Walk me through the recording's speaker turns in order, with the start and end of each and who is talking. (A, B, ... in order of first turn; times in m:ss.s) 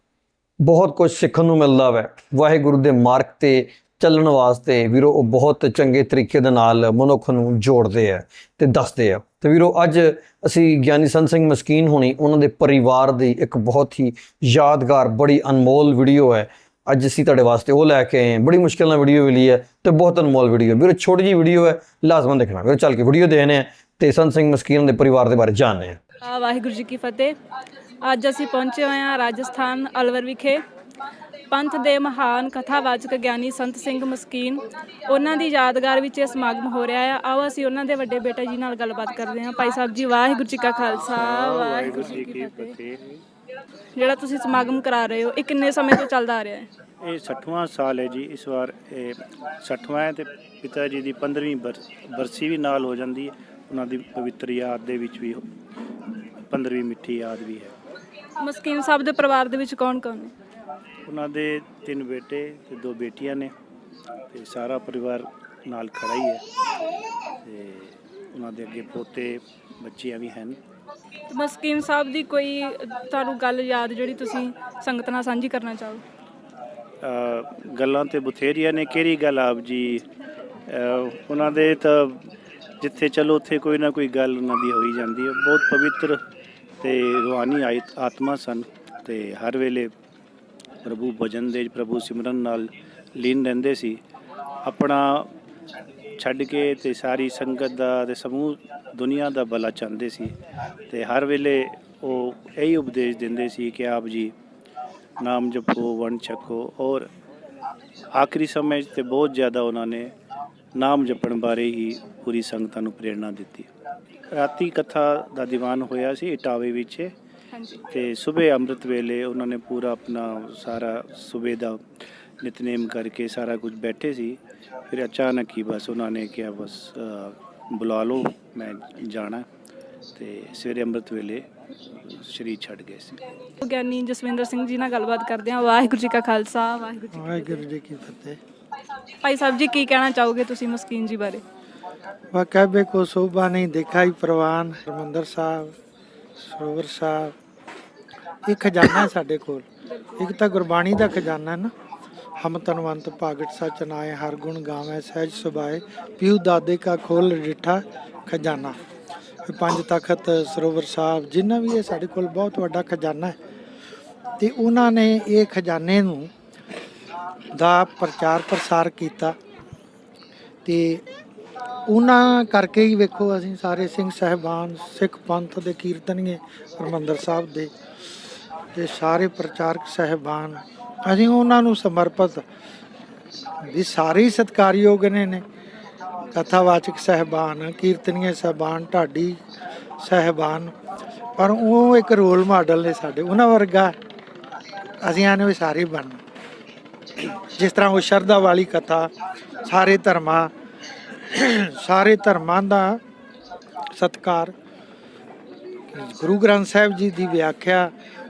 0:00.6-0:26.0 A
0:26.2-0:27.3 B
0:28.0-0:30.6 B
0:31.5-0:42.7 B
0:41.1-0:43.2 C
0:43.9-0:46.7 B
0:47.0-0:55.4 C
0:56.5-0:57.7 C
0:58.4-1:00.3 B
1:01.0-1:03.5 C
1:04.3-1:06.4 C
1:07.4-1:10.6 C
1:11.3-1:16.0 B
1:17.0-1:20.1 C
1:20.7-1:26.2 C
1:26.8-1:29.9 C
1:30.8-1:34.0 C
1:34.6-1:35.3 C
1:36.2-1:40.3 C
1:40.9-1:44.3 C
1:45.2-1:47.1 C
1:48.1-1:50.1 C
1:50.8-1:53.7 C
1:54.3-1:57.1 C
1:57.5-1:57.8 B
1:57.9-2:01.8 C
2:02.4-2:04.4 C
2:04.9-2:09.4 C
2:10.2-2:13.3 C
2:13.6-2:17.6 B
2:17.1-2:18.4 D
2:19.2-2:21.4 B
2:22.3-2:25.7 D
2:26.4-2:27.3 D
2:28.5-2:29.6 D
2:30.2-2:31.7 D
2:32.4-2:38.8 D
2:39.4-2:43.3 D
2:44.4-2:46.3 D
2:47.5-2:49.3 D
2:50.6-2:51.0 D
2:51.9-2:57.7 D
2:58.7-3:02.4 D
3:03.7-3:05.4 D
3:06.3-3:09.4 D
3:10.0-3:10.7 D
3:11.4-3:13.9 D
3:15.0-3:16.2 D
3:17.2-3:19.1 D
3:19.6-3:20.5 D
3:21.2-3:23.0 D
3:24.0-3:24.5 D
3:25.9-3:27.9 D